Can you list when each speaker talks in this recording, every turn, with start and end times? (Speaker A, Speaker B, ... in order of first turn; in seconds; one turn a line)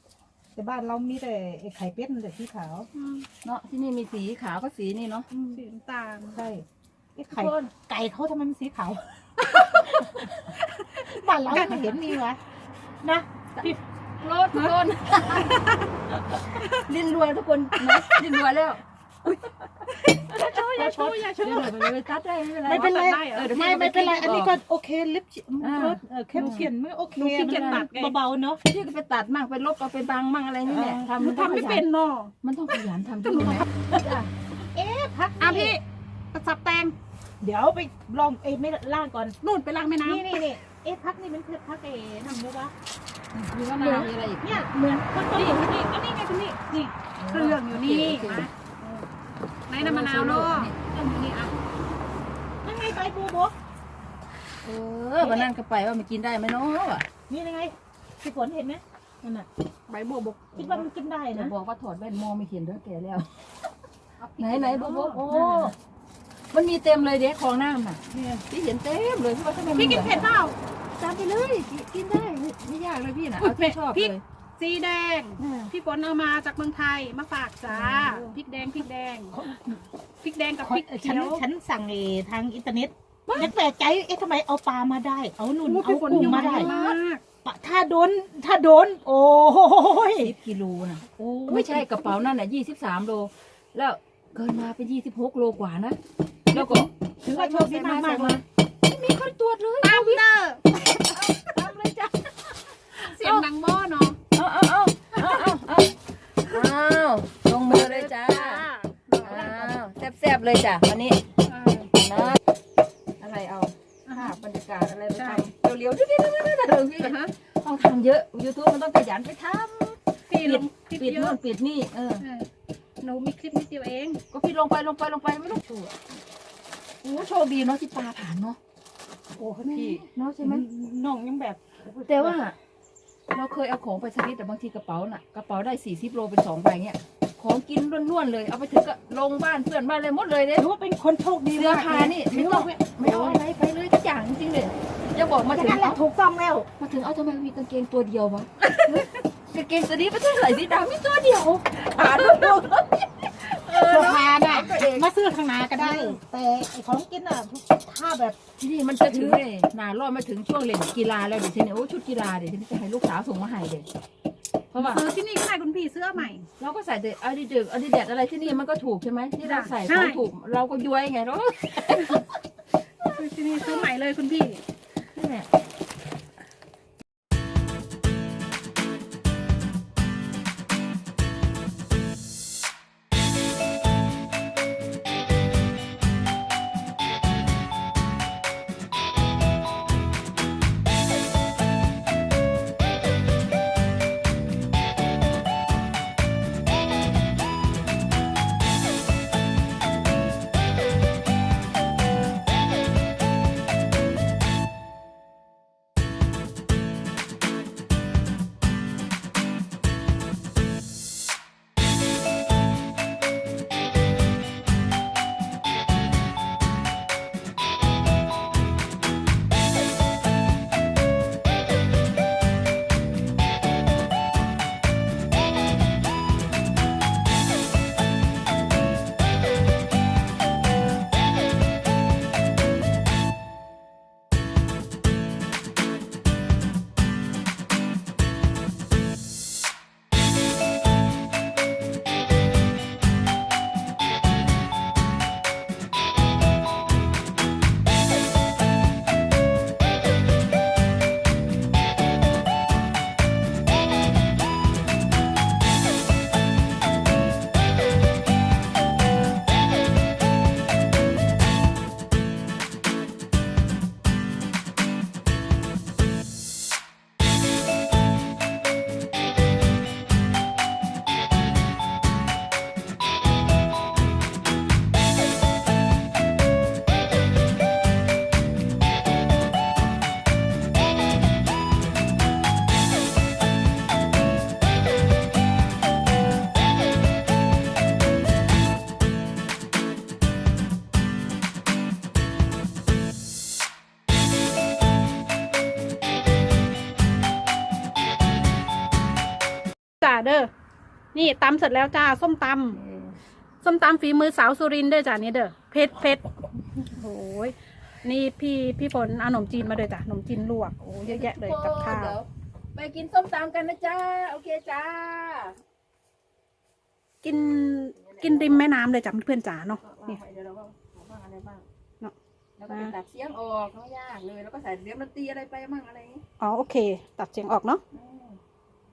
Speaker A: 0.5-2.9
Speaker B: 2.9-3.3
Speaker C: 3.4-5.3
Speaker B: 5.3-6.4
Speaker A: 6.3-6.6
Speaker A: 7.2-9.9
Speaker C: 7.3-7.7
Speaker C: 9.4-10.4
Speaker B: 10.4-11.2
Speaker A: 11.0-12.4
Speaker C: 11.5-12.0
Speaker A: 13.0-13.8
Speaker C: 13.6-15.6
Speaker B: 14.5-15.9
Speaker C: 16.1-20.4
Speaker B: 16.4-16.8
Speaker B: 19.9-21.9
Speaker A: 20.4-21.3
Speaker C: 21.3-24.6
Speaker A: 22.6-28.6
Speaker B: 22.7-23.5
Speaker C: 25.6-27.9
Speaker B: 27.2-28.2
Speaker C: 28.7-31.9
Speaker A: 30.6-31.1
Speaker B: 31.2-33.7
Speaker C: 32.4-34.3
Speaker A: 34.7-35.8
Speaker B: 35.4-36.9
Speaker A: 37.4-39.4
Speaker B: 39.4-40.4
Speaker A: 40.0-42.7
Speaker C: 43.3-44.6
Speaker A: 43.7-45.8
Speaker B: 45.3-48.5
Speaker C: 47.2-48.5
Speaker B: 49.7-51.5
Speaker C: 49.8-50.7
Speaker A: 52.6-53.5
Speaker C: 54.6-57.1
Speaker A: 55.2-55.5
Speaker A: 57.3-59.5
Speaker B: 59.9-60.9
Speaker A: 60.5-61.5
Speaker C: 61.3-63.3
Speaker B: 64.2-65.2
Speaker C: 64.4-65.7
Speaker A: 65.1-65.7
Speaker C: 66.5-70.2
Speaker A: 68.1-68.4
Speaker B: 69.7-70.5
Speaker C: 71.0-74.2
Speaker B: 73.4-79.4
Speaker C: 75.4-75.7
Speaker C: 77.7-78.3
Speaker A: 79.3-79.8
Speaker B: 80.2-81.4
Speaker A: 80.6-86.8
Speaker B: 85.6-87.2
Speaker C: 86.1-87.0
Speaker A: 87.4-90.3
Speaker C: 90.2-96.0
Speaker A: 91.5-91.9
Speaker C: 96.5-100.2
Speaker A: 96.5-98.4
Speaker B: 99.8-102.1
Speaker C: 101.1-101.7
Speaker C: 103.0-103.4
Speaker B: 103.0-104.2
Speaker C: 104.3-111.2
Speaker B: 105.1-105.5
Speaker B: 107.6-109.7
Speaker B: 111.5-111.9
Speaker C: 111.9-112.4
Speaker C: 113.2-122.2
Speaker B: 114.1-114.3
Speaker B: 115.2-115.5
Speaker B: 117.0-117.3
Speaker B: 120.3-121.4
Speaker B: 122.2-122.5
Speaker B: 123.0-124.2
Speaker C: 124.3-126.0
Speaker C: 127.0-128.6
Speaker A: 129.4-132.5
Speaker C: 129.7-130.6
Speaker C: 132.1-132.6
Speaker C: 133.3-140.7
Speaker A: 140.5-143.6
Speaker C: 141.5-146.0
Speaker A: 145.5-146.7
Speaker C: 146.8-155.1
Speaker A: 153.8-158.4
Speaker C: 155.7-156.2
Speaker C: 158.6-163.8
Speaker A: 159.0-159.4
Speaker C: 164.7-165.0
Speaker B: 164.8-166.4
Speaker C: 166.6-172.3
Speaker B: 169.4-170.2
Speaker B: 173.0-174.6
Speaker C: 173.6-173.9
Speaker C: 175.1-175.5
Speaker B: 300.0-300.5
Speaker B: 301.1-302.8
Speaker C: 302.7-303.1
Speaker B: 303.6-306.2
Speaker B: 306.8-312.2
Speaker C: 311.0-315.6
Speaker B: 317.2-320.2
Speaker C: 317.3-318.6
Speaker C: 319.8-321.6
Speaker C: 322.6-326.2
Speaker B: 322.7-322.9
Speaker B: 326.4-327.8
Speaker C: 327.9-328.4